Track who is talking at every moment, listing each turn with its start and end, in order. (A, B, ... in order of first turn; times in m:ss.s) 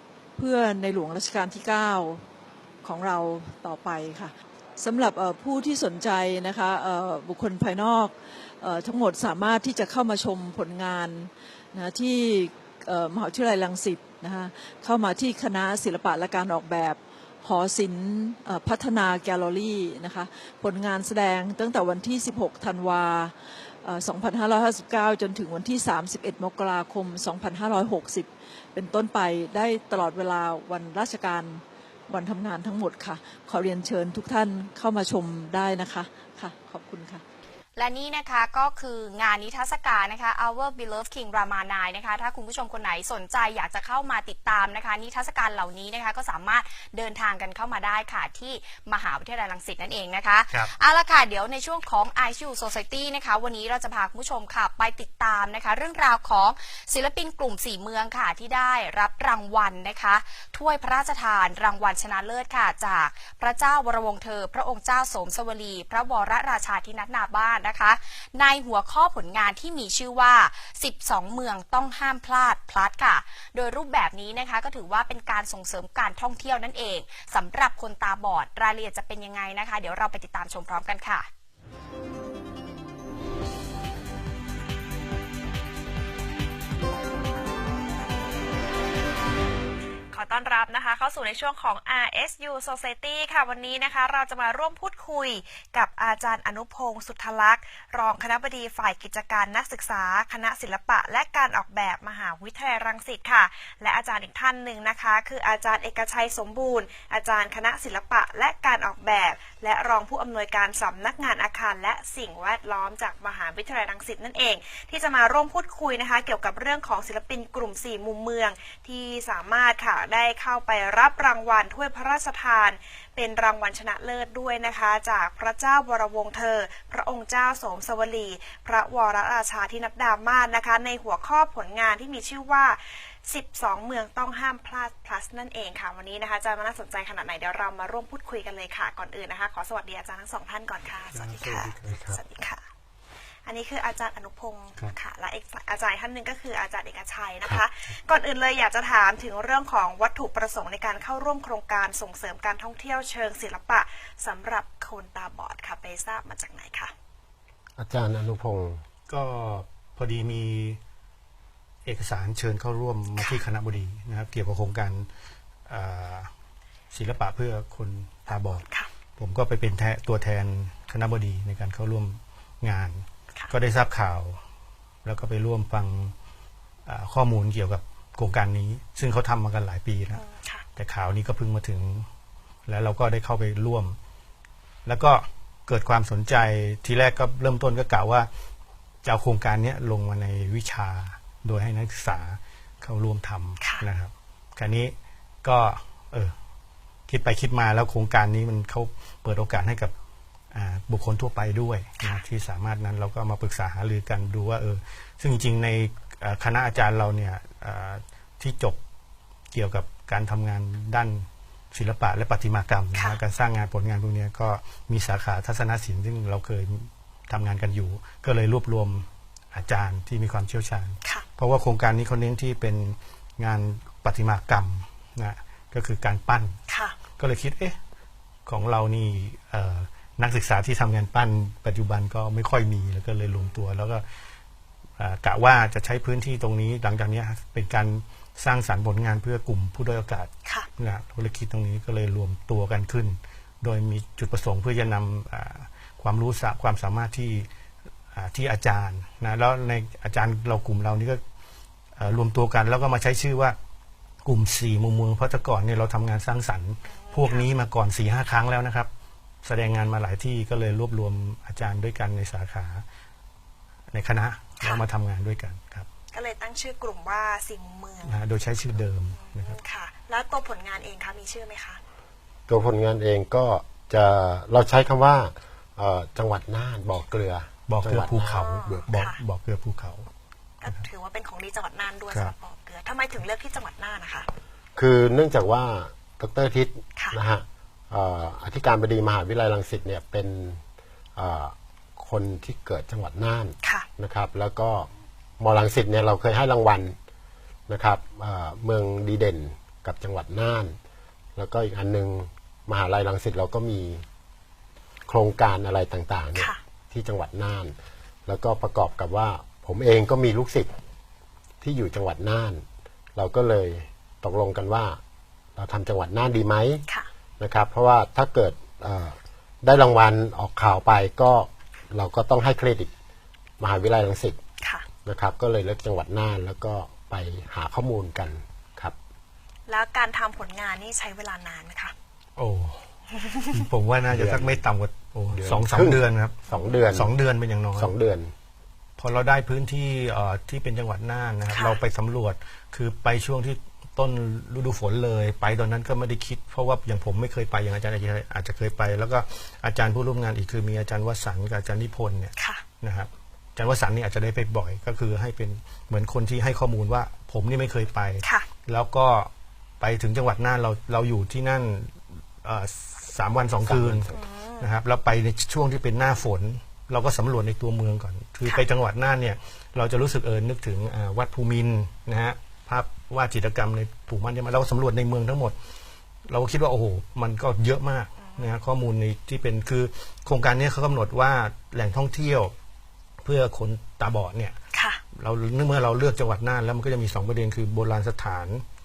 0:00.4-0:02.2 A
0:02.8-0:37.2 A
0:37.8-1:21.3 B
1:30.1-2:22.6 C
2:21.1-2:22.1 D
2:23.4-2:36.9 C
2:37.8-2:38.8 E
2:39.1-2:40.8 D
2:41.8-2:45.1 D
2:43.2-2:43.4 C
2:45.7-2:46.3 D
2:46.9-2:48.6 D
2:48.3-2:48.9 C
2:49.2-2:54.4 D
2:55.0-2:56.1 D
2:56.8-3:00.2 D
3:00.1-3:00.6 C
3:00.8-3:02.1 D
3:02.7-3:04.0 D
3:04.8-3:08.3 D
3:09.0-3:16.3 D
3:13.6-3:13.8 C
3:17.1-3:19.9 D
3:20.5-3:28.8 D
3:29.5-3:46.6 D
3:32.9-3:33.2 C
3:46.7-3:47.0 C
3:47.2-3:47.8 D
3:48.4-3:54.0 D
3:55.0-4:07.5 D
4:08.1-4:11.2 D
4:12.0-4:13.6 D
4:14.2-4:18.9 D
4:16.9-4:17.4 C
4:19.4-4:22.8 D
4:23.9-4:25.9 D
4:26.1-4:28.2 C
4:28.0-4:29.6 D
4:29.1-4:31.8 C
4:32.5-4:38.8 E
4:37.7-4:40.1 D
4:38.0-4:39.2 C
4:40.6-4:44.3 C
4:44.8-4:50.6 E
4:51.2-4:54.9 E
4:55.4-4:57.0 E
4:57.7-5:00.8 E
5:01.4-5:04.0 E
5:05.1-5:07.7 E
5:08.2-5:10.7 E
5:11.6-5:12.6 E
5:13.2-5:15.0 E
5:15.6-5:16.8 E
5:17.4-5:22.9 E
5:23.6-5:24.4 E
5:24.6-5:24.8 C
5:25.0-5:28.9 E
5:29.7-5:31.9 C
5:32.4-5:32.9 D
5:33.5-5:36.4 D
5:34.1-5:34.6 E
5:35.3-5:37.1 E
5:36.5-5:36.8 C
5:36.9-5:37.9 D
5:37.8-5:38.3 E
5:39.0-6:15.6 D
5:41.5-5:41.8 C
5:52.4-5:52.6 C
6:03.6-6:04.2 E
6:04.1-6:04.7 C
6:16.3-6:22.5 D
6:18.2-6:18.5 C
6:23.2-6:24.6 D
6:24.7-6:25.0 C
6:25.1-6:28.6 D